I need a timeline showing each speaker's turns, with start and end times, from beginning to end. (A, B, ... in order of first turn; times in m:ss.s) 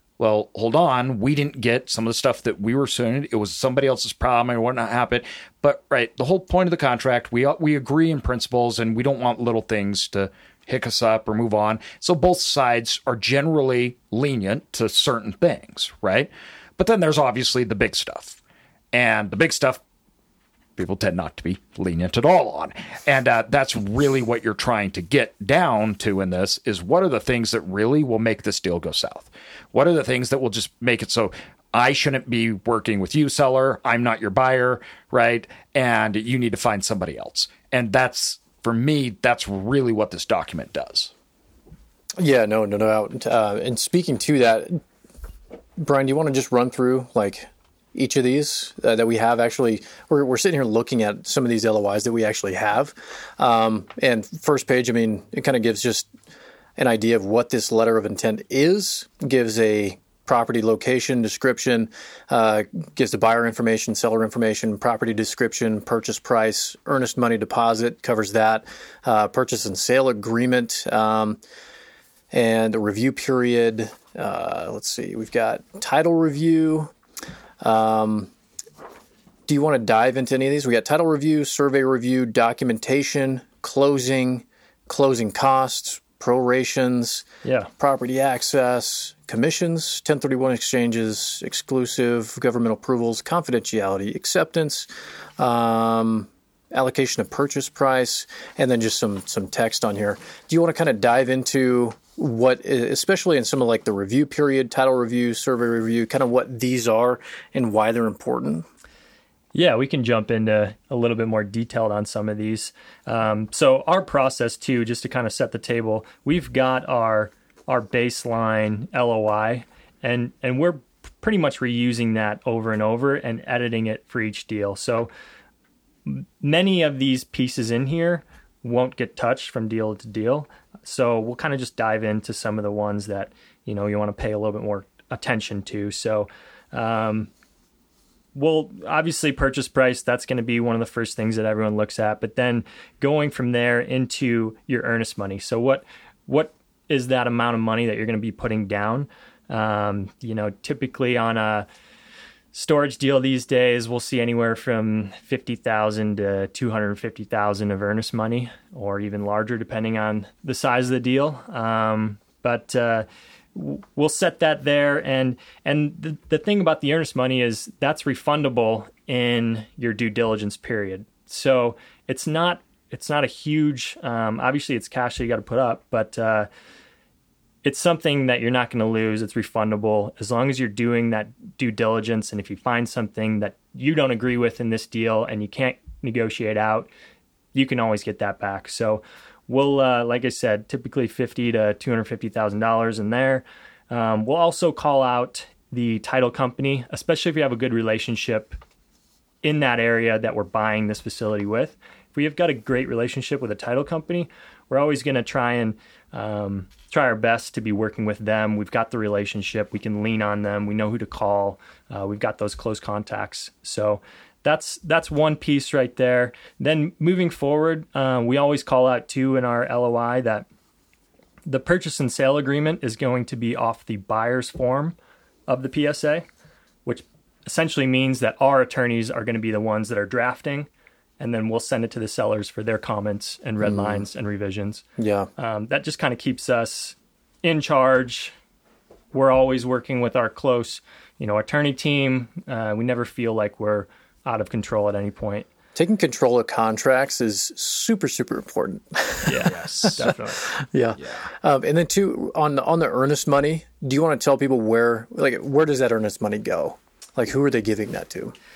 0:00.2-0:18.4 A
0:18.9-0:19.8 A
0:20.8-0:41.1 A
0:42.2-0:44.8 B
0:45.8-0:56.1 B
0:56.8-1:11.4 B
1:12.3-1:16.9 B
1:17.6-1:18.3 B
1:19.5-1:27.2 B
1:27.4-1:27.7 C
1:27.8-1:48.7 B
1:49.5-2:05.1 C
2:06.0-2:17.3 C
2:18.3-2:31.7 C
2:32.5-2:56.5 C
2:57.6-3:06.9 C
3:07.5-3:18.6 C
3:19.4-3:40.4 C
3:41.4-3:45.0 C
3:45.5-3:46.2 C
3:46.8-3:50.7 C
3:51.2-3:54.8 C
3:53.6-3:54.0 B
3:55.0-3:55.3 B
3:55.4-3:58.3 C
3:59.1-4:05.5 C
4:05.7-4:18.3 B
4:09.3-4:10.4 C
4:09.5-4:10.1 A